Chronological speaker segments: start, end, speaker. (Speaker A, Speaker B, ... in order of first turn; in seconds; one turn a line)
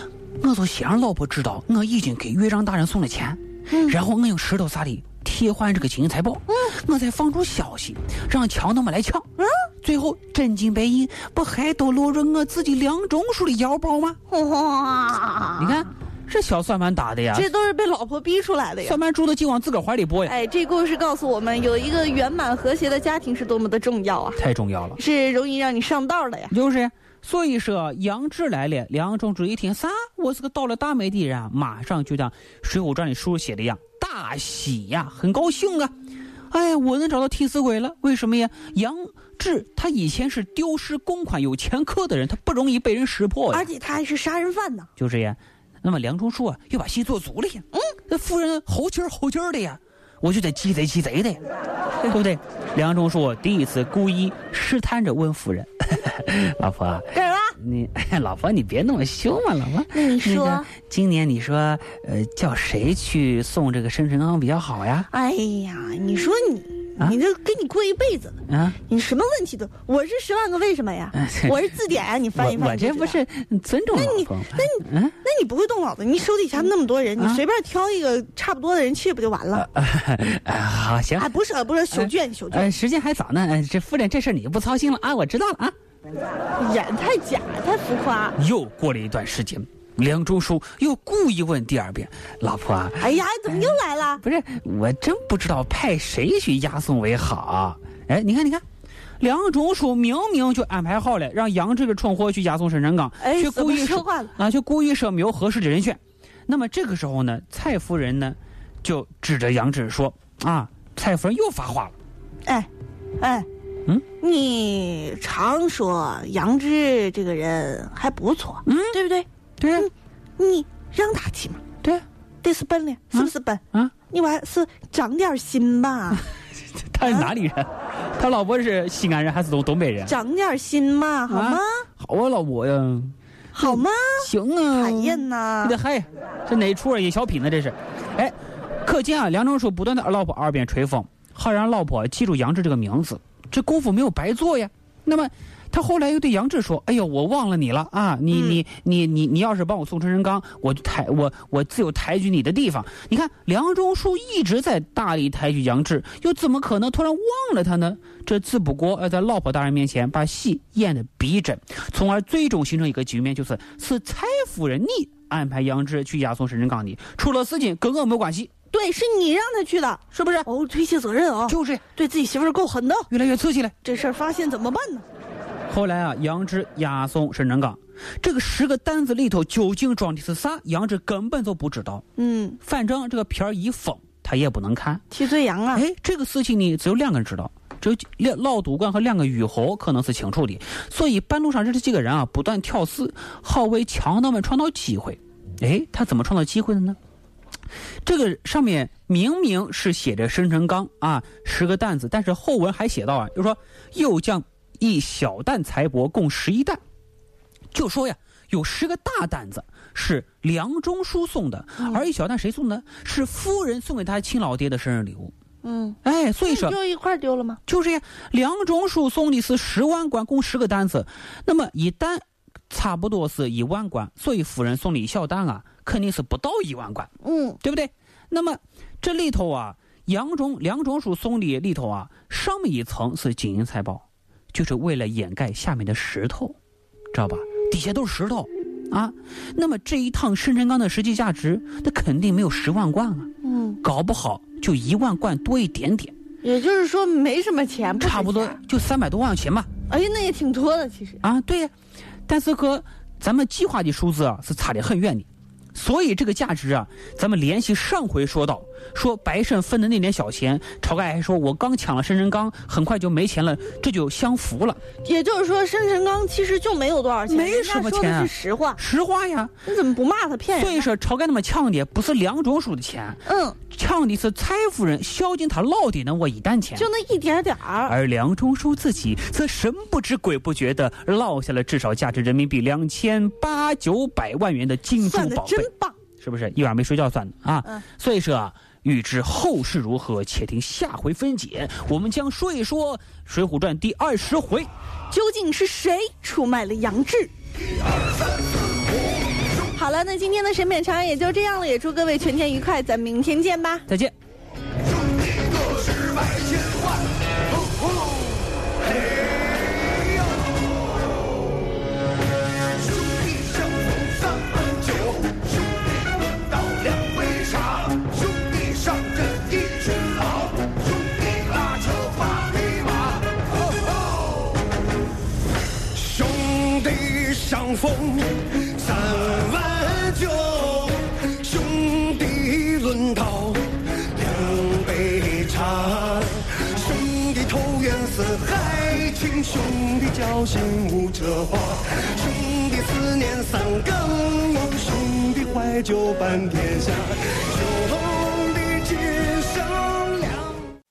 Speaker A: 0.4-9.3
Speaker B: 3.7-4.0
Speaker B: 9.4-9.7
Speaker A: 9.8-14.2
Speaker B: 14.3-15.8
Speaker A: 15.6-17.5
Speaker B: 17.3-19.0
Speaker A: 18.8-20.3
Speaker B: 20.2-24.4
Speaker A: 24.4-25.0
Speaker B: 25.0-26.5
Speaker A: 26.5-35.9
Speaker A: 36.5-43.7
Speaker B: 43.5-44.9
Speaker A: 45.0-51.4
Speaker A: 52.1-65.1
Speaker B: 57.1-57.6
Speaker B: 59.9-60.7
Speaker B: 65.1-68.4
Speaker A: 68.5-68.8
Speaker B: 68.9-73.2
Speaker A: 71.1-71.6
Speaker A: 72.4-75.2
Speaker B: 73.9-79.7
Speaker A: 79.5-81.3
Speaker B: 81.2-82.7
Speaker A: 81.9-85.7
Speaker B: 86.6-88.4
Speaker A: 88.4-93.2
Speaker B: 93.0-94.2
Speaker A: 94.2-98.6
Speaker A: 99.2-111.9
Speaker B: 103.2-104.3
Speaker B: 112.5-113.5
Speaker B: 114.2-121.6
Speaker A: 118.7-119.0
Speaker A: 119.6-119.9
Speaker B: 122.4-126.2
Speaker A: 123.2-123.9
Speaker A: 126.8-130.1
Speaker B: 127.0-127.3
Speaker B: 130.1-131.8
Speaker A: 131.3-168.5
Speaker B: 133.5-135.8
Speaker B: 148.3-148.6
Speaker B: 168.7-173.1
Speaker A: 170.1-170.5
Speaker A: 171.5-171.8
Speaker A: 173.1-173.8
Speaker B: 173.8-175.1
Speaker A: 175.7-182.0
Speaker B: 182.2-182.6
Speaker A: 182.6-185.0
Speaker B: 185.1-185.8
Speaker A: 185.7-197.0
Speaker A: 198.1-206.8
Speaker A: 207.7-215.3
Speaker B: 211.8-212.1
Speaker B: 215.6-217.6
Speaker A: 216.0-216.8
Speaker A: 217.7-227.1
Speaker B: 227.2-227.6
Speaker A: 227.6-236.6
Speaker A: 237.1-243.3
Speaker B: 243.4-243.8
Speaker A: 243.8-246.1
Speaker B: 246.4-248.6
Speaker A: 248.0-249.7
Speaker B: 249.9-251.2
Speaker A: 251.2-251.7
Speaker A: 252.3-264.8
Speaker B: 265.0-268.8
Speaker A: 267.3-269.5
Speaker B: 269.6-270.9
Speaker A: 270.6-276.9
Speaker B: 273.2-273.6
Speaker B: 276.8-278.0
Speaker A: 277.9-294.7
Speaker B: 285.0-286.0
Speaker B: 295.1-297.3
Speaker B: 299.7-303.9
Speaker A: 303.9-304.1
Speaker C: 306.2-306.5
Speaker C: 313.2-315.4
Speaker C: 316.8-323.1
Speaker C: 325.9-350.4